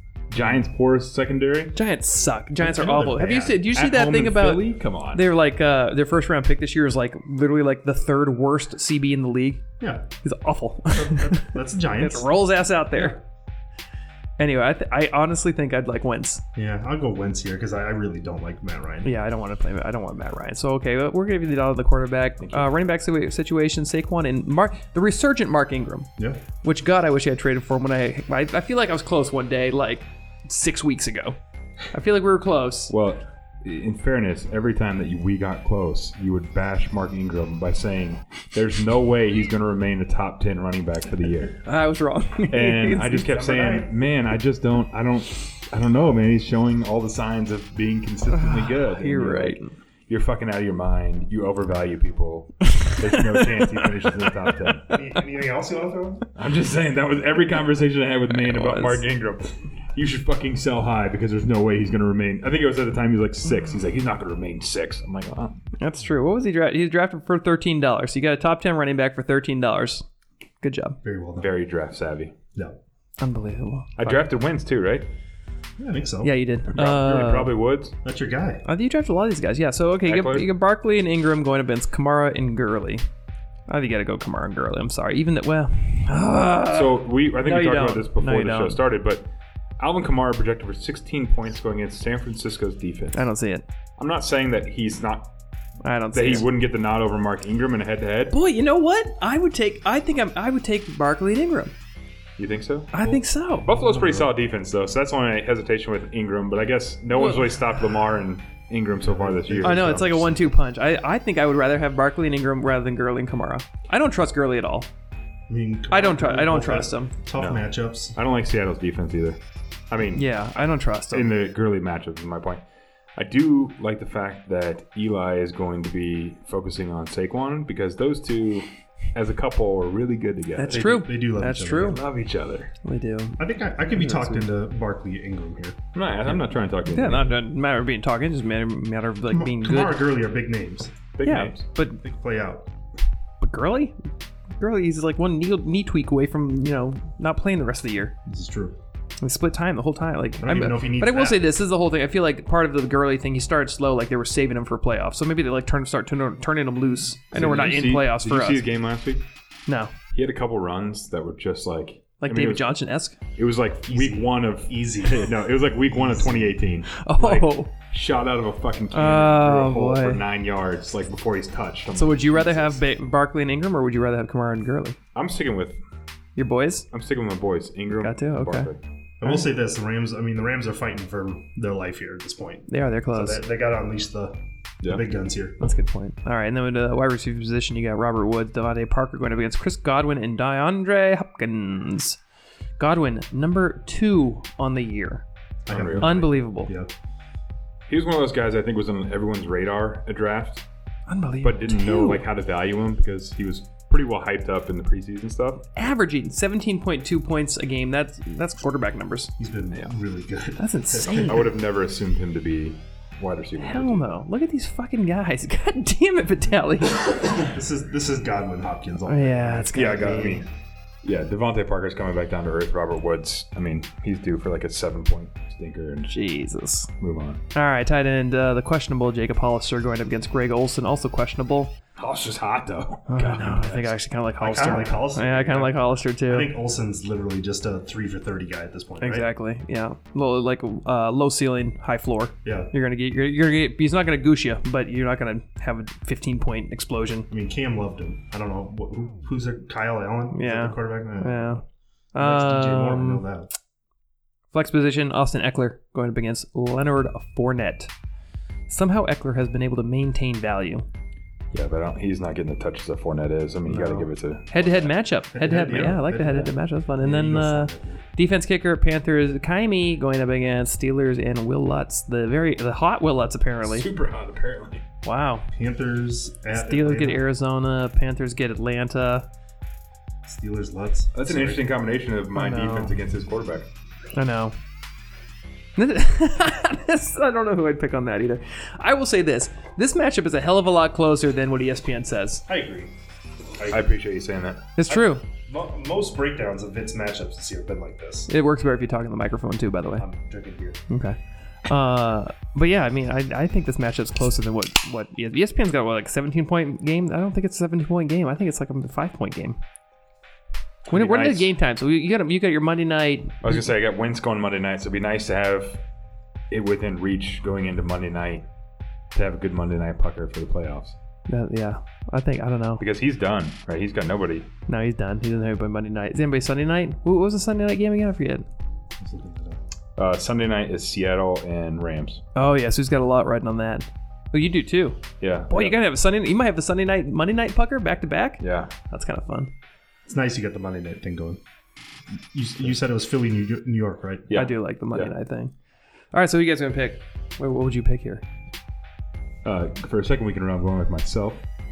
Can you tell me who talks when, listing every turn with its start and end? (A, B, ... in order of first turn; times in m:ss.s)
0:00.3-0:01.8 A
0:01.7-0:09.6 B
0:02.6-0:03.6 C
0:03.6-0:05.2 A
0:09.8-0:10.1 C
0:10.2-0:13.2 B
0:10.9-0:12.3 C
0:14.4-0:16.4 B
0:16.6-0:19.1 C
0:19.0-0:26.1 B
0:22.4-0:22.7 A
0:26.6-0:31.4 B
0:31.9-0:32.9 B
0:32.9-0:41.6 A
0:41.6-0:43.3 B
0:42.5-0:54.9 A
0:43.2-0:43.9 C
0:48.3-0:49.7 B
0:52.7-0:53.8 B
0:54.9-0:56.3 C
0:56.3-1:05.6 A
0:58.3-0:59.0 B
1:05.8-1:10.0 B
1:10.6-1:11.0 B
1:11.0-1:11.5 C
1:11.4-1:12.3 A
1:13.2-1:14.2 B
1:14.0-1:15.1 A
1:15.8-1:16.3 C
1:16.2-1:17.5 B
1:16.7-1:17.9 A
1:18.0-1:18.6 C
1:18.6-1:23.0 B
1:20.0-1:20.5 A
1:23.7-1:28.8 B
1:26.7-1:29.3 A
1:29.8-1:33.3 A
1:33.1-1:33.6 B
1:34.0-1:35.3 A
1:35.8-1:36.5 B
1:36.1-1:38.4 A
1:38.3-1:41.7 B
1:42.4-1:50.2 A
1:42.9-1:43.7 B
1:43.8-1:44.3 C
1:47.1-1:47.5 B
1:49.0-1:50.3 C
1:49.6-1:54.9 B
1:55.5-1:58.1 C
1:55.9-1:57.2 B
1:57.4-2:00.3 A
2:00.1-2:01.3 B
2:01.1-2:02.6 A
2:03.2-2:11.0 A
2:10.6-2:12.0 B
2:10.7-2:12.0 C
2:11.7-2:12.7 A
2:12.8-2:14.5 B
2:13.4-2:16.4 C
2:15.9-2:17.4 A
2:16.9-2:20.0 B
2:19.3-2:20.9 C
2:21.1-2:21.6 A
2:21.2-2:22.0 B
2:22.0-2:22.6 C
2:23.4-2:24.0 B
2:24.6-2:28.1 B
2:28.3-2:28.8 C
2:29.2-2:38.7 B
2:30.4-2:31.4 C
2:37.3-2:39.2 A
2:39.7-2:39.9 B
2:40.1-2:42.7 A
2:42.2-2:43.2 B
2:43.3-2:52.8 A
2:43.9-2:46.7 C
2:46.9-2:47.7 B
2:48.9-2:50.2 B
2:51.9-2:55.0 B
2:55.1-2:55.8 A
2:56.4-2:56.9 B
2:56.9-2:58.8 A
2:58.0-2:58.7 B
2:59.2-3:05.6 C
3:02.7-3:03.4 B
3:05.6-3:12.2 B
3:12.8-3:15.2 B
3:15.7-3:16.2 A
3:15.7-3:16.9 C
3:16.0-3:16.7 B
3:17.9-3:20.6 A
3:21.1-3:22.2 B
3:21.4-3:25.6 A
3:25.7-3:29.3 B
3:29.4-3:31.5 C
3:30.6-3:31.5 B
3:31.2-3:34.1 A
3:33.6-3:37.4 B
3:37.3-3:40.4 C
3:39.0-3:40.4 B
3:39.7-3:40.4 A
3:41.0-3:46.1 A
3:46.1-3:46.9 B
3:47.0-3:47.4 A
3:47.5-3:51.7 B
3:52.0-3:54.0 A
3:53.1-3:56.5 B
3:54.4-3:55.8 C
3:56.3-3:59.2 C
3:59.0-4:07.3 B
4:02.4-4:02.7 C
4:07.3-4:11.6 C
4:10.3-4:11.6 B
4:12.1-4:13.2 B
4:12.2-4:13.5 C
4:14.5-4:17.9 B
4:18.7-4:20.8 B
4:21.5-4:24.9 A
4:23.7-4:24.1 C
4:24.5-4:33.9 B
4:25.3-4:28.0 C
4:33.6-4:34.8 A
4:35.0-4:35.5 B
4:35.5-4:37.2 C
4:36.5-4:39.3 B
4:40.2-4:41.6 C
4:41.1-4:43.7 A
4:42.3-4:43.0 B
4:44.1-4:44.6 B
4:45.8-4:52.4 B
4:52.5-4:52.9 C
4:53.6-4:53.9 C
4:53.7-4:54.6 A
4:54.8-4:55.2 B
4:54.9-4:58.3 C
4:58.3-5:00.0 B
5:00.0-5:00.8 C
5:00.9-5:09.6 B
5:10.9-5:11.5 A
5:10.9-5:13.6 B
5:13.4-5:15.8 A
5:16.5-5:18.4 A
5:19.1-5:21.0 A
5:21.3-5:22.8 B
5:22.8-5:24.5 A
5:24.7-5:28.4 B
5:29.0-5:29.6 C
5:30.0-5:32.2 A
5:32.3-5:39.5 B
5:35.2-5:35.8 A
5:38.4-5:38.7 A
5:40.0-5:41.4 C
5:42.3-5:44.3 C
5:44.3-5:45.1 A
5:44.3-5:45.5 B
5:46.1-5:48.2 B
5:49.4-5:51.4 A